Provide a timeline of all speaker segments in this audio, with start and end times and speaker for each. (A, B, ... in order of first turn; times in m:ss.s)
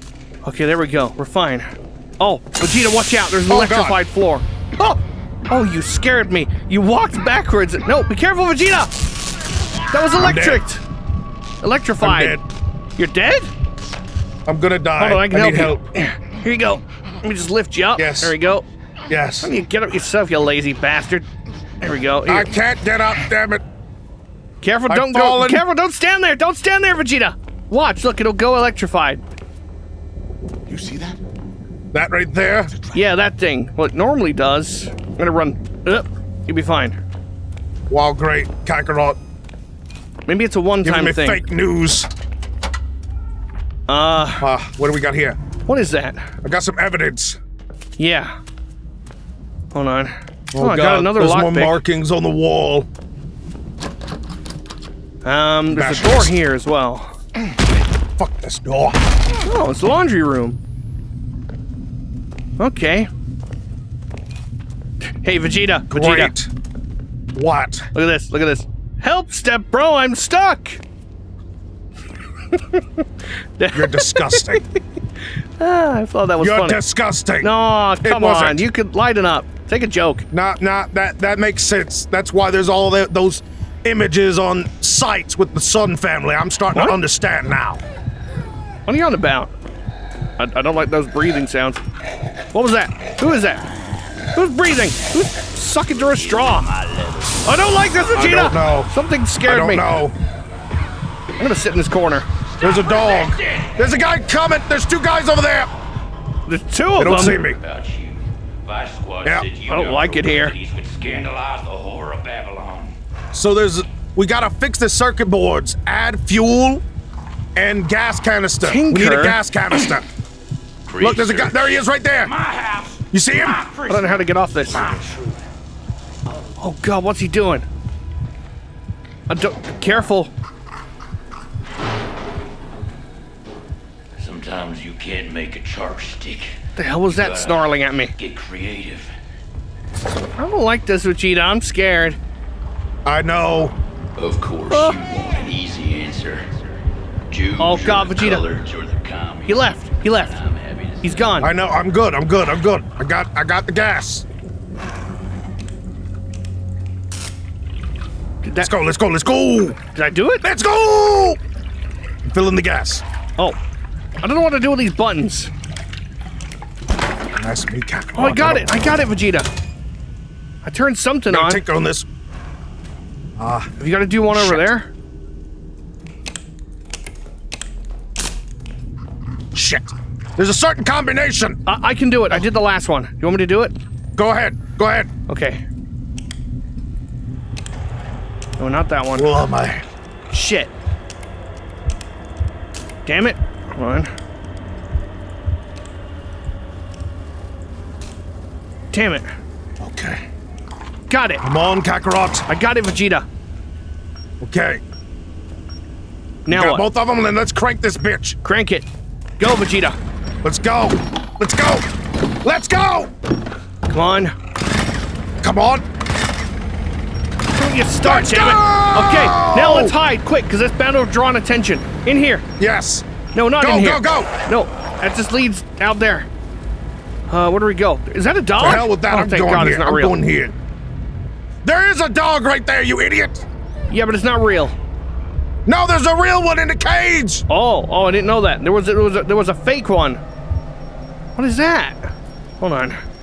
0:00.4-0:08.9 A
0:03.5-0:04.0 B
0:09.9-0:10.8 A
0:10.1-0:10.6 B
0:11.6-0:12.4 A
0:12.0-0:12.4 B
0:13.0-0:13.5 A
0:14.5-0:15.8 B
0:15.0-0:18.6 A
0:18.0-0:18.3 B
0:19.1-0:19.5 B
0:19.4-0:21.2 A
0:21.8-0:22.5 A
0:22.2-0:23.6 B
0:24.6-0:29.2 A
0:24.9-0:25.6 B
0:30.7-0:31.0 C
0:31.9-0:32.7 B
0:32.9-0:37.0 A
0:37.9-0:39.2 B
0:40.3-0:41.4 A
0:40.8-0:42.1 B
0:43.9-0:44.5 A
0:44.4-0:45.4 B
0:45.6-0:46.3 A
0:46.4-0:47.4 B
0:48.0-0:48.3 A
0:49.7-0:51.8 A
0:50.5-0:52.9 B
0:55.2-0:57.2 A
0:55.7-0:56.3 B
0:58.2-0:59.0 B
0:59.4-1:00.6 A
1:02.6-1:03.1 A
1:05.2-1:06.3 A
1:05.9-1:06.5 B
1:07.3-1:07.8 B
1:07.9-1:10.8 A
1:12.5-1:13.0 A
1:13.6-1:14.8 A
1:13.7-1:14.6 B
1:15.6-1:16.8 A
1:16.4-1:18.7 B
1:17.4-1:20.2 A
1:20.3-1:27.8 B
1:28.9-1:29.5 A
1:30.4-1:31.8 A
1:32.5-1:33.6 A
1:34.3-1:36.7 A
1:36.1-1:37.8 C
1:37.4-1:39.9 A
1:38.1-1:38.9 B
1:39.4-1:40.1 B
1:41.4-1:42.3 A
1:42.4-1:43.8 C
1:42.6-1:45.7 B
1:46.5-1:47.4 A
1:47.0-1:47.6 B
1:47.5-1:53.0 C
1:49.7-1:50.6 A
1:53.3-1:56.8 B
1:57.5-2:00.0 B
1:58.6-1:59.4 A
2:00.9-2:05.4 C
2:01.0-2:02.3 B
2:03.1-2:03.6 B
2:03.9-2:04.8 A
2:06.6-2:07.6 A
2:09.3-2:10.3 A
2:14.2-2:16.6 C
2:16.8-2:18.1 A
2:17.1-2:17.6 C
2:18.2-2:19.1 C
2:20.4-2:22.2 A
2:23.0-2:23.7 B
2:24.2-2:26.5 C
2:24.7-2:25.0 A
2:27.3-2:31.4 C
2:27.6-2:28.4 A
2:29.5-2:30.4 A
2:31.0-2:31.5 A
2:31.4-2:34.2 B
2:38.4-2:38.7 A
2:38.6-2:39.8 B
2:39.9-2:40.4 A
2:40.4-2:41.4 B
2:42.2-2:43.0 B
2:44.2-2:45.5 A
2:47.4-2:48.8 B
2:48.2-2:49.5 A
2:50.6-2:51.6 A
2:51.3-2:52.0 B
2:53.4-2:53.7 B
2:53.8-2:54.9 A
2:54.3-2:54.7 B
2:59.5-3:01.6 B
3:01.6-3:03.7 A
3:04.2-3:05.1 B
3:05.3-3:05.6 A
3:08.6-3:09.3 A
3:09.2-3:09.8 B
3:10.3-3:10.7 A
3:13.0-3:14.1 A
3:18.9-3:19.3 A
3:19.8-3:20.2 B
3:21.1-3:21.4 A
3:21.4-3:22.4 B
3:22.5-3:23.2 A
3:24.4-3:24.8 B
3:26.4-3:26.8 A
3:26.5-3:28.4 B
3:28.4-3:28.8 A
3:29.4-3:30.0 A
3:30.4-3:31.8 B
3:32.4-3:33.1 B
3:33.9-3:34.3 A
3:35.4-3:35.8 B
3:37.5-3:42.4 A
3:38.0-3:39.9 B
3:42.6-3:43.0 B
3:43.3-3:46.3 A
3:43.6-3:44.3 B
3:47.3-3:50.2 A
3:48.6-3:50.5 B
3:51.6-3:53.4 B
3:53.9-3:54.7 A
3:55.6-3:57.4 B
3:57.5-4:00.2 A
4:01.4-4:02.1 A
4:02.6-4:03.0 A